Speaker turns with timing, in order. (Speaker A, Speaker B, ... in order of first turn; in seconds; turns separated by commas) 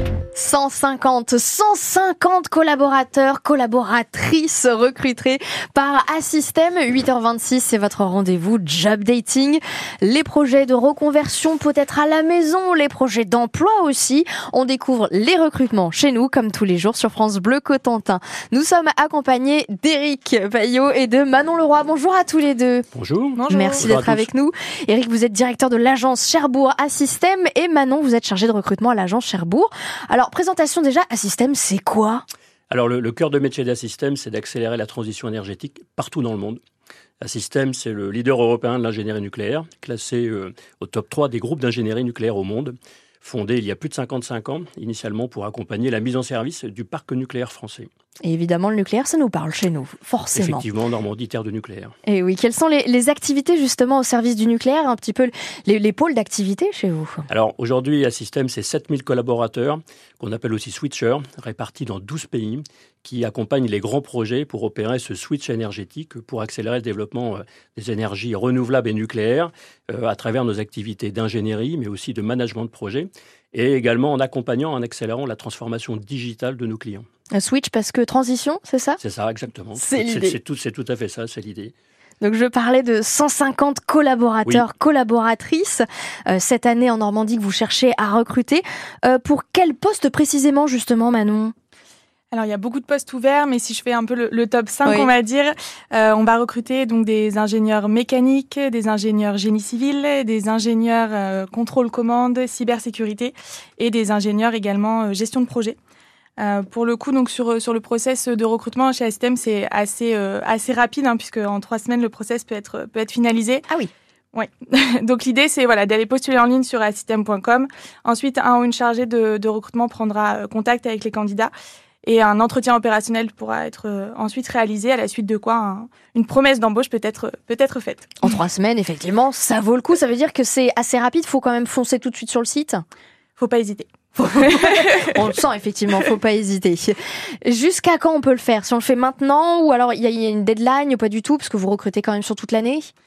Speaker A: 0.3-22.9, Speaker B: 22.9-24.3, Speaker C: 23.4-23.9, Speaker A: 23.5-32.2, Speaker B: 32.7-36.6, Speaker B: 37.2-47.9, Speaker A: 48.2-50.6, Speaker B: 50.4-52.0, Speaker A: 52.1-57.3, Speaker B: 57.3-77.1, Speaker A: 77.3-79.0, Speaker B: 79.0-81.7, Speaker A: 79.7-80.4, Speaker A: 82.2-91.5, Speaker C: 92.3-105.8, Speaker A: 94.8-95.1, Speaker C: 106.4-113.7, Speaker C: 114.3-121.5, Speaker C: 122.0-128.2, Speaker A: 128.2-132.8, Speaker C: 133.4-135.1, Speaker A: 134.2-142.9